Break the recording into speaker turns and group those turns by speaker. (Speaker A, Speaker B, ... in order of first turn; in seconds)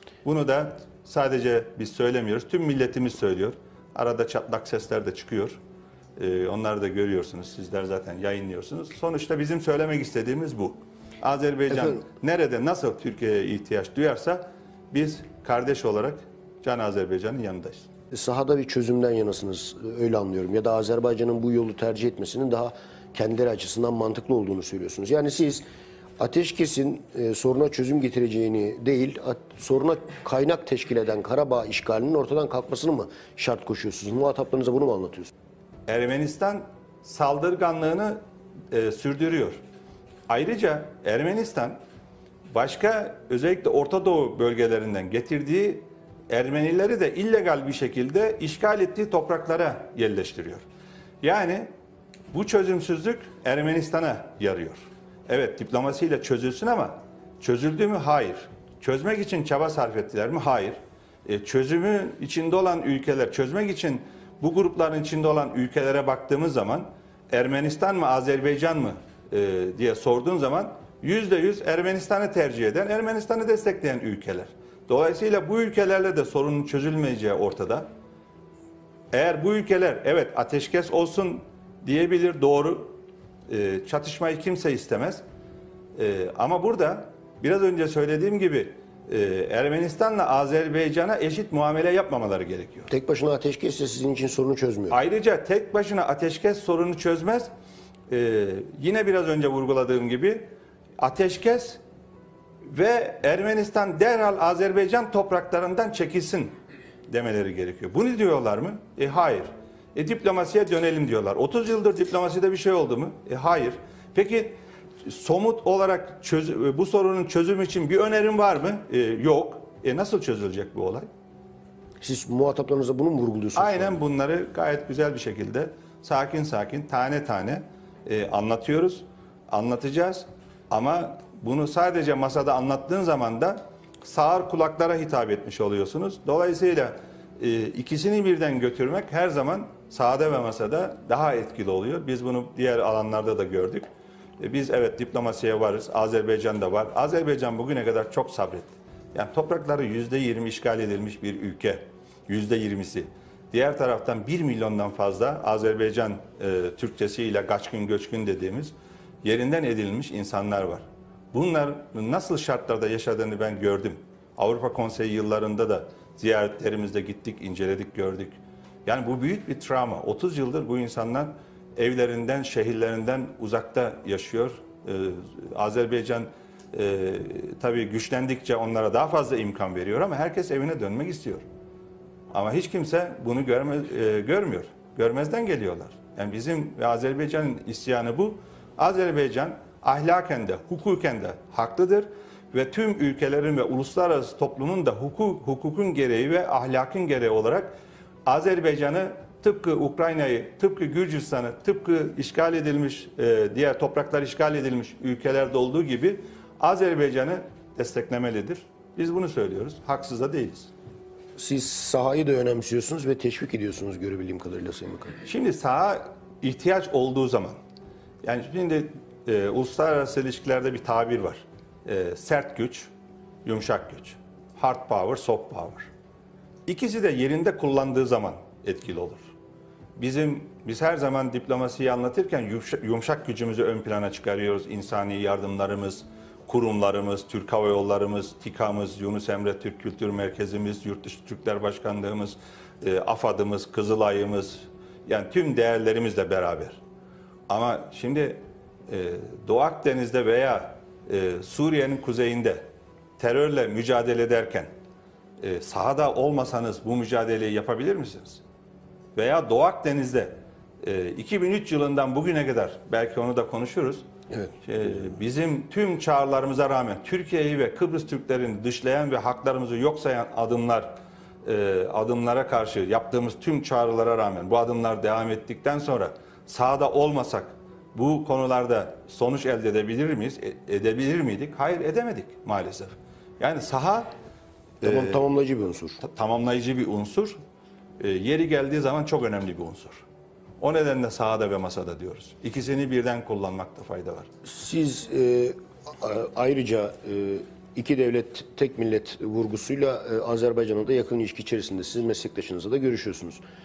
Speaker A: 0.2-5.6, 6.2-17.9, 35.9-38.2, 38.7-39.6, 40.3-41.8, 42.5-50.6, 51.2-51.7, 52.3-77.9, 79.1-82.9, 83.5-85.2, 86.0-92.9, 94.9-97.5, 98.1-101.8, 102.7-106.5, 107.1-121.1, 123.5-143.9, 144.4-181.4, 182.3-210.7, 215.2-217.6, 218.2-222.9, 223.4-225.9, 226.7-229.3, 229.9-246.8, 247.5-254.7, 255.4-258.4, 259.1-264.1, 264.6-284.1, 284.8-285.2, 286.0-287.4, 288.0-290.0, 290.6-294.3
Speaker B: 11.7-12.0, 18.1-25.6, 26.2-35.3, 92.9-95.0, 122.0-124.0, 211.3-215.2, 284.8-286.0, 294.4-303.4